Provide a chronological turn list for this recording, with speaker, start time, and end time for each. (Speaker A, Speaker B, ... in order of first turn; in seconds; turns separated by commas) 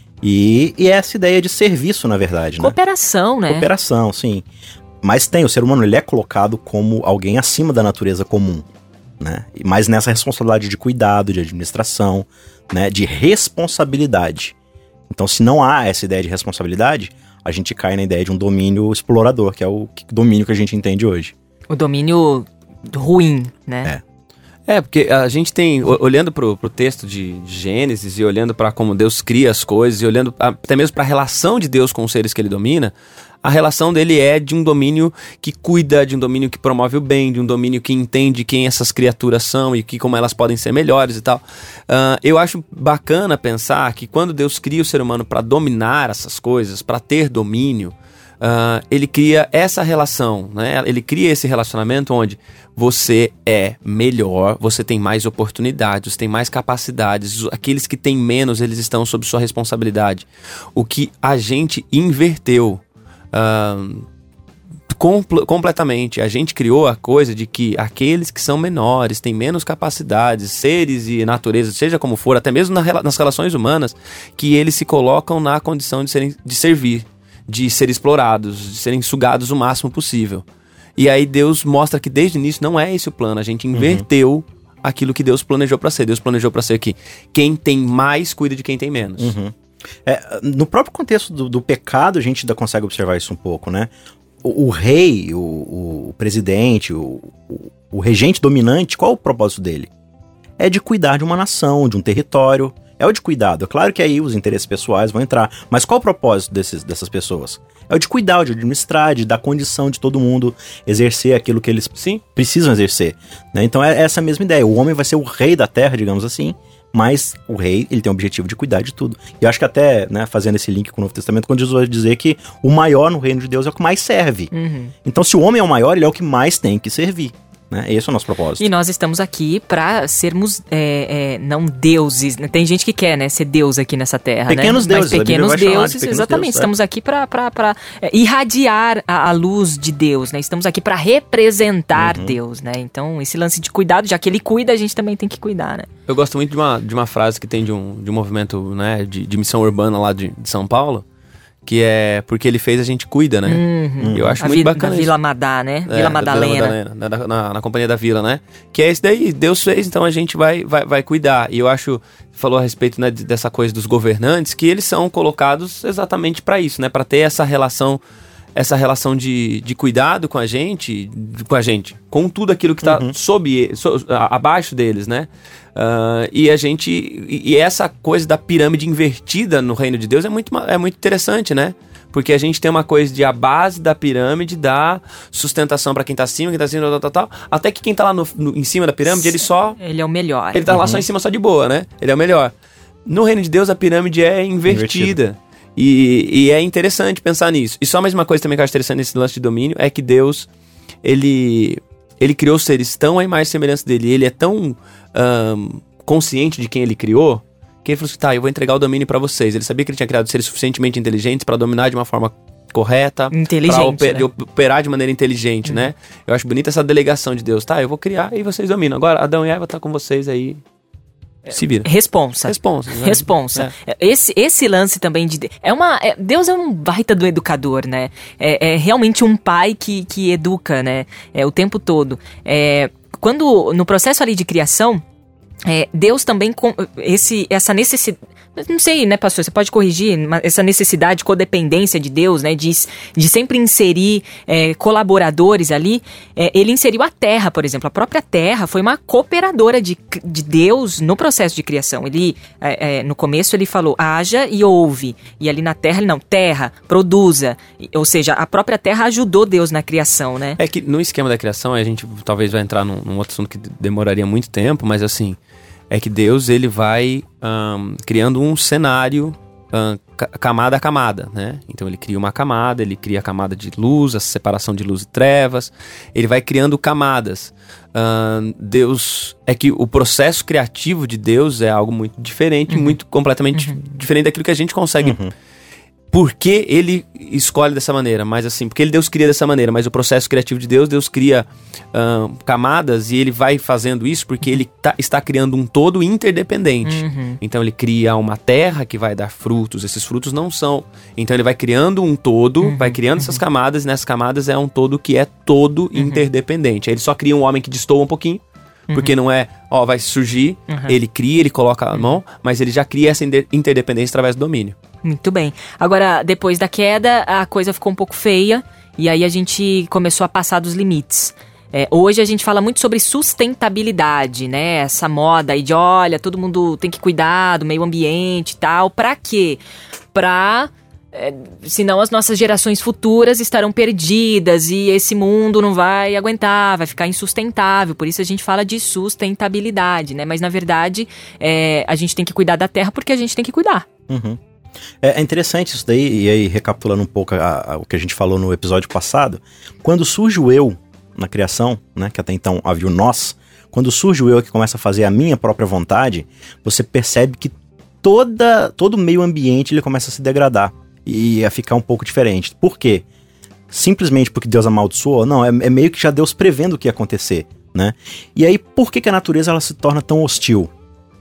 Speaker A: 0.2-2.8, Speaker B: 2.6-3.7, Speaker A: 3.5-4.5, Speaker A: 5.0-8.7, Speaker A: 9.2-14.6, Speaker A: 15.1-21.3, Speaker B: 21.7-23.9, Speaker C: 24.7-32.9, Speaker C: 33.4-64.1, Speaker C: 64.9-80.4, Speaker C: 81.0-89.3, Speaker A: 83.7-84.0, Speaker A: 89.2-89.5, Speaker A: 90.0-93.9, Speaker A: 94.4-99.9, Speaker A: 100.6-124.5, Speaker C: 112.0-112.2, Speaker B: 124.5-124.9, Speaker A: 125.0-128.7, Speaker B: 128.6-145.9, Speaker A: 134.5-136.7, Speaker A: 142.0-142.4, Speaker C: 146.1-151.1, Speaker C: 151.7-155.1, Speaker B: 153.5-156.8, Speaker A: 154.0-154.4, Speaker C: 155.9-168.0, Speaker C: 168.6-189.8, Speaker A: 172.8-173.1, Speaker B: 189.1-190.6, Speaker C: 190.5-192.5, Speaker A: 190.7-191.0, Speaker C: 193.1-200.5, Speaker A: 194.7-195.2, Speaker C: 201.0-220.6, Speaker B: 213.3-214.3, Speaker B: 221.5-235.0, Speaker C: 221.5-221.9, Speaker C: 222.4-223.7, Speaker B: 235.7-260.6, Speaker C: 260.6-265.4, Speaker C: 265.9-285.2, Speaker B: 282.7-283.0, Speaker A: 285.0-285.3, Speaker C: 286.1-308.4, Speaker B: 296.8-297.4, Speaker B: 302.6-303.4, Speaker B: 306.0-306.3, Speaker C: 308.9-314.8, Speaker B: 310.7-311.0, Speaker B: 315.0-329.6, Speaker B: 330.1-343.9, Speaker A: 344.1-344.4, Speaker A: 345.0-363.1, Speaker A: 363.7-370.7